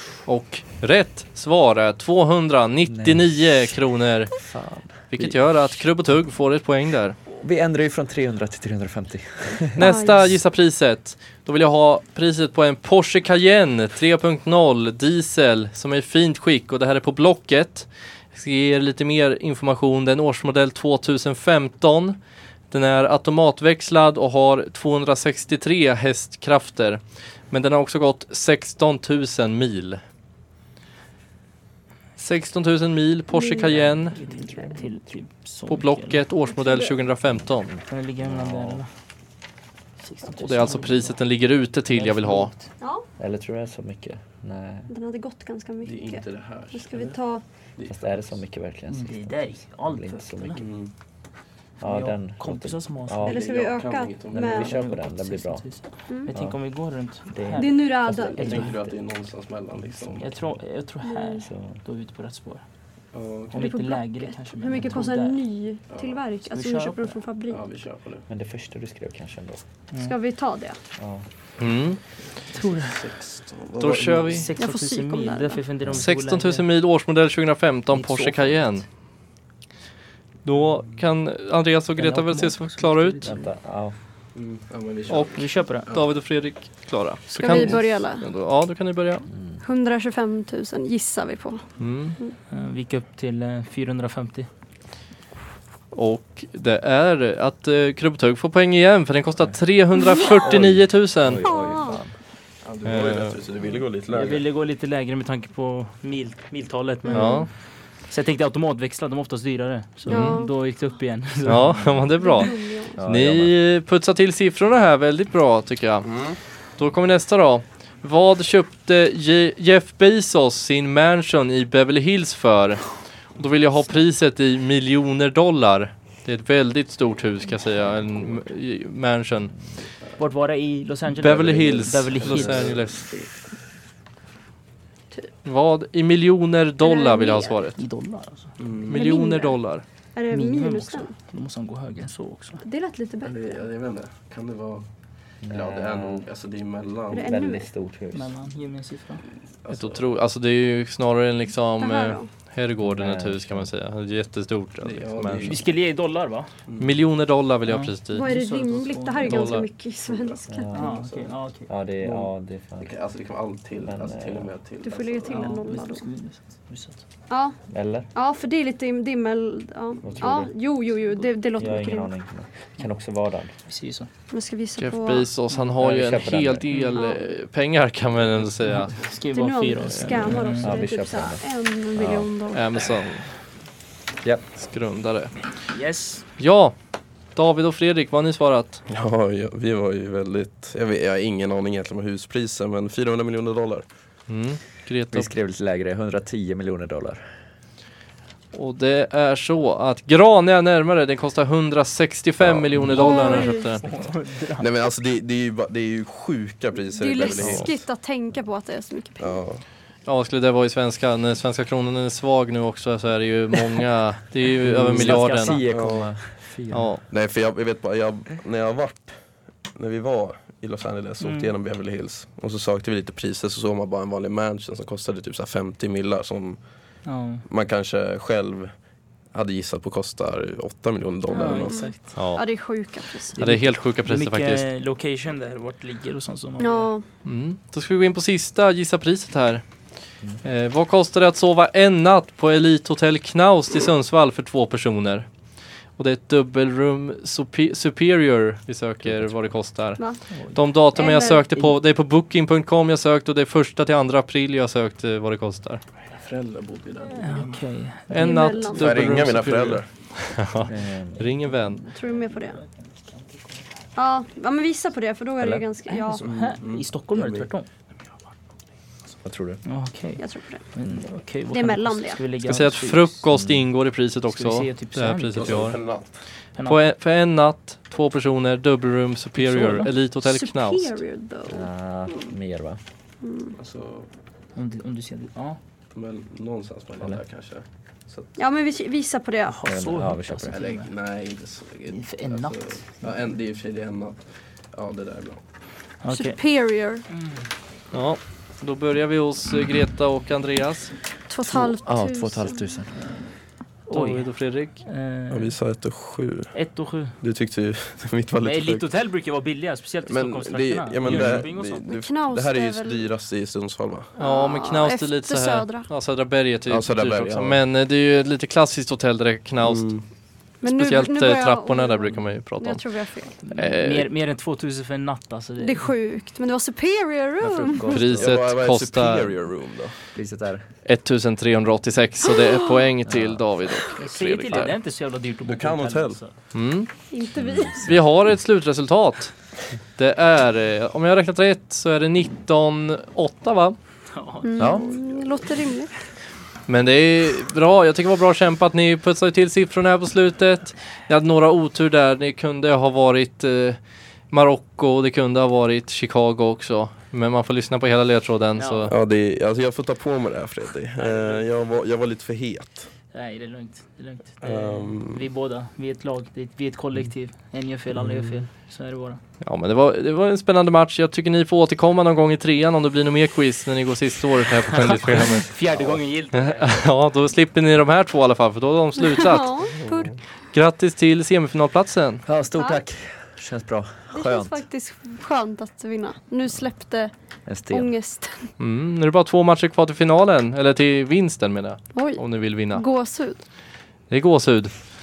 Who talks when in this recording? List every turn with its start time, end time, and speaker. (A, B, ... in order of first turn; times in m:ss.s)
0:00.2-0:04.4 A
0:02.9-0:03.3 B
0:04.3-0:05.3 B
0:05.1-0:07.2 A
0:07.3-0:09.9 B
0:09.8-0:22.2 A
0:09.8-0:10.3 C
0:22.7-0:30.0 A
0:32.2-0:34.2 A
0:33.3-0:33.9 C
0:33.8-0:36.2 D
0:35.7-0:37.8 A
0:36.5-0:36.9 C
0:37.8-0:38.8 B
0:37.9-0:38.9 D
0:40.0-0:41.2 D
0:40.4-0:42.5 A
0:41.9-0:42.7 D
0:42.8-0:43.0 C
0:43.2-0:44.9 B
0:44.9-0:47.4 C
0:45.8-0:47.2 E
0:47.8-0:48.4 E
0:47.8-0:50.6 B
0:48.9-0:50.6 D
0:50.5-0:50.9 E
0:51.8-0:53.4 B
0:51.8-0:53.3 D
0:53.2-0:54.7 E
0:53.2-0:54.7 C
0:54.3-0:55.6 B
0:54.6-0:58.7 D
0:56.3-0:56.6 B
0:57.3-0:58.9 B
0:57.5-0:58.7 C
0:58.4-1:00.4 E
1:00.2-1:02.6 D
1:01.0-1:01.4 C
1:01.4-1:01.8 B
1:03.1-1:03.6 E
1:03.5-1:05.4 D
1:03.6-1:07.6 C
1:05.9-1:06.2 E
1:06.4-1:07.2 D
1:07.5-1:08.2 E
1:08.3-1:09.6 B
1:10.0-1:10.8 C
1:11.0-1:11.2 B
1:11.6-1:12.0 A
1:12.5-1:13.1 D
1:12.5-1:14.5 E
1:13.8-1:14.5 A
1:14.2-1:16.6 D
1:14.6-1:15.6 C
1:15.9-1:18.8 A
1:17.9-1:18.6 D
1:20.4-1:23.3 A
1:22.0-1:23.5 D
1:23.2-1:23.9 B
1:24.3-1:26.1 E
1:25.1-1:29.3 A
1:25.3-1:25.9 D
1:27.3-1:28.2 C
1:29.3-1:29.6 B
1:29.6-1:31.6 C
1:31.8-1:32.2 A
1:32.5-1:34.5 D
1:35.9-1:41.4 A
1:40.0-1:40.4 C
1:40.4-1:42.1 B
1:41.4-1:42.0 C
1:42.6-1:44.4 E
1:42.8-1:43.4 A
1:44.1-1:47.5 D
1:47.0-1:47.5 C
1:47.1-1:47.5 A
1:48.1-1:52.5 D
1:50.0-1:50.5 C
1:50.1-1:50.4 A
1:51.4-1:52.5 A
1:52.2-1:53.0 C
1:53.0-1:53.5 B
1:53.0-1:56.1 A
1:56.0-1:56.4 E
1:56.8-2:09.5 A
2:10.2-2:12.8 D
2:11.2-2:13.0 A
2:11.3-2:13.3 E
2:15.4-2:17.8 A
2:16.8-2:17.6 C
2:17.8-2:18.6 D
2:18.6-2:19.0 E
2:18.9-2:19.8 A
2:18.9-2:19.6 C
2:20.1-2:21.1 C
2:20.3-2:22.6 D
2:22.6-2:23.6 C
2:23.2-2:24.8 E
2:25.4-2:26.2 B
2:25.5-2:27.3 E
2:27.1-2:27.7 C
2:27.1-2:28.3 B
2:28.1-2:29.2 D
2:29.6-2:30.1 E
2:29.7-2:35.6 A
2:31.8-2:32.3 C
2:32.8-2:33.7 B
2:34.8-2:35.6 E
2:35.4-2:36.5 D
2:36.7-2:36.9 E
2:36.8-2:38.2 A
2:37.7-2:39.6 D
2:38.1-2:40.7 C
2:39.2-2:39.6 A
2:40.0-2:41.3 E
2:40.5-2:41.0 B
2:40.7-2:41.7 D
2:41.7-2:42.9 B
2:42.0-2:45.8 E
2:43.8-2:44.5 B
2:44.8-2:46.1 C
2:45.3-2:47.0 D
2:47.3-2:47.5 C
2:47.7-2:48.1 B
2:48.1-2:52.1 C
2:50.0-2:50.5 B
2:51.6-2:53.5 B
2:53.7-2:54.1 D
2:54.3-2:55.3 C
2:54.8-2:59.0 A
2:55.8-2:56.6 B
2:56.7-2:57.0 D
2:56.9-2:57.3 C
2:58.7-3:00.8 D
2:59.3-3:02.9 C
3:00.6-3:01.4 B
3:02.0-3:02.2 B
3:02.5-3:03.3 A
3:04.6-3:05.4 A
3:05.7-3:06.2 D
3:06.4-3:06.7 A
3:07.4-3:08.8 A
3:08.9-3:13.8 E
3:14.3-3:15.3 A
3:15.1-3:17.2 B
3:18.5-3:23.9 A
3:22.4-3:23.0 E
3:22.9-3:23.7 C
3:23.0-3:24.7 D
3:24.6-3:27.7 E
3:26.9-3:29.4 C
3:27.4-3:27.7 B
3:29.2-3:29.6 E
3:30.0-3:35.6 A
3:34.6-3:36.4 B
3:34.7-3:36.1 E
3:36.5-3:36.9 D
3:36.7-3:37.0 A
3:37.1-3:39.1 E
3:39.7-3:46.6 E
3:41.2-3:41.5 D
3:47.0-3:47.4 D
3:47.5-3:48.7 E
3:49.3-3:51.9 E
3:51.3-3:52.1 D
3:51.4-3:53.4 C
3:52.1-3:52.4 A
3:53.4-3:56.9 D
3:53.4-3:54.6 A
3:56.6-3:57.0 C
3:57.2-3:59.6 A
4:00.4-4:05.3 A
4:06.0-4:10.0 A
4:09.0-4:09.4 B
4:10.3-4:10.6 D
4:10.5-4:15.8 A
4:10.9-4:11.5 C
4:16.1-4:17.6 E
4:17.1-4:18.6 D
4:18.1-4:21.8 A
4:18.1-4:18.9 C
4:18.7-4:19.8 E
4:20.7-4:21.3 B
4:21.8-4:23.7 D
4:21.9-4:22.6 C
4:24.0-4:26.2 C
4:25.4-4:25.7 B
4:25.9-4:27.7 D
4:26.2-4:27.5 E
4:29.2-4:29.6 B
4:29.6-4:33.2 D
4:30.2-4:30.6 C
4:31.5-4:32.2 C
4:32.4-4:35.8 A
4:33.3-4:33.6 B
4:34.3-4:35.7 D
4:35.3-4:36.2 E
4:36.6-4:41.0 A
4:39.4-4:39.9 D
4:40.2-4:42.3 C
4:41.5-4:42.8 B
4:43.2-4:43.6 C
4:43.6-4:44.1 E
4:44.6-4:45.6 D
4:45.9-4:48.3 E
4:48.4-4:49.6 C
4:49.5-4:50.9 D
4:49.6-4:50.6 B
4:50.5-4:55.4 E
4:51.9-4:52.9 D
4:56.0-4:56.4 D
4:56.1-4:57.0 C
4:57.1-4:57.4 D
4:57.9-5:00.9 A
5:01.3-5:02.8 C
5:01.4-5:02.9 B
5:03.9-5:04.3 D
5:03.9-5:04.8 A
5:04.8-5:05.5 D
5:05.3-5:06.5 E
5:06.5-5:07.2 D
5:07.2-5:08.8 E
5:08.4-5:11.9 D
5:10.1-5:14.1 E
5:11.0-5:11.4 B
5:11.7-5:13.1 C
5:14.2-5:15.9 C
5:14.2-5:20.0 A
5:16.7-5:17.6 E
5:19.6-5:20.0 E
5:20.6-5:22.8 A
5:20.6-5:23.3 C
5:23.4-5:25.9 D
5:23.5-5:24.1 A
5:25.6-5:28.0 C
5:27.4-5:28.3 B
5:27.9-5:29.4 A
5:28.2-5:29.9 E
5:30.2-5:30.6 B
5:30.8-5:34.8 A
5:32.2-5:32.9 C
5:33.0-5:33.4 B
5:33.9-5:36.3 D
5:35.4-5:36.2 E
5:36.5-5:36.9 A
5:37.1-5:37.9 C
5:37.4-5:38.0 B
5:37.7-5:39.3 A
5:40.0-5:43.8 A
5:44.1-5:44.8 D
5:44.4-5:45.9 C
5:44.6-5:44.8 B
5:44.9-5:45.2 E
5:46.7-5:53.8 A
5:54.3-5:58.9 A
5:58.6-5:58.9 D
5:58.9-6:02.9 E
6:01.0-6:01.4 D
6:03.1-6:09.2 D
6:04.4-6:05.3 E
6:08.0-6:08.4 E
6:09.4-6:15.5 A
6:14.7-6:16.8 D
6:16.3-6:19.6 A
6:19.0-6:20.1 C
6:19.8-6:20.1 E
6:20.5-6:22.2 A
6:22.2-6:24.6 B
6:22.5-6:22.8 C
6:24.1-6:27.1 C
6:27.5-6:27.9 B
6:27.7-6:28.5 C
6:28.6-6:32.8 A
6:31.9-6:33.4 C
6:34.1-6:34.7 A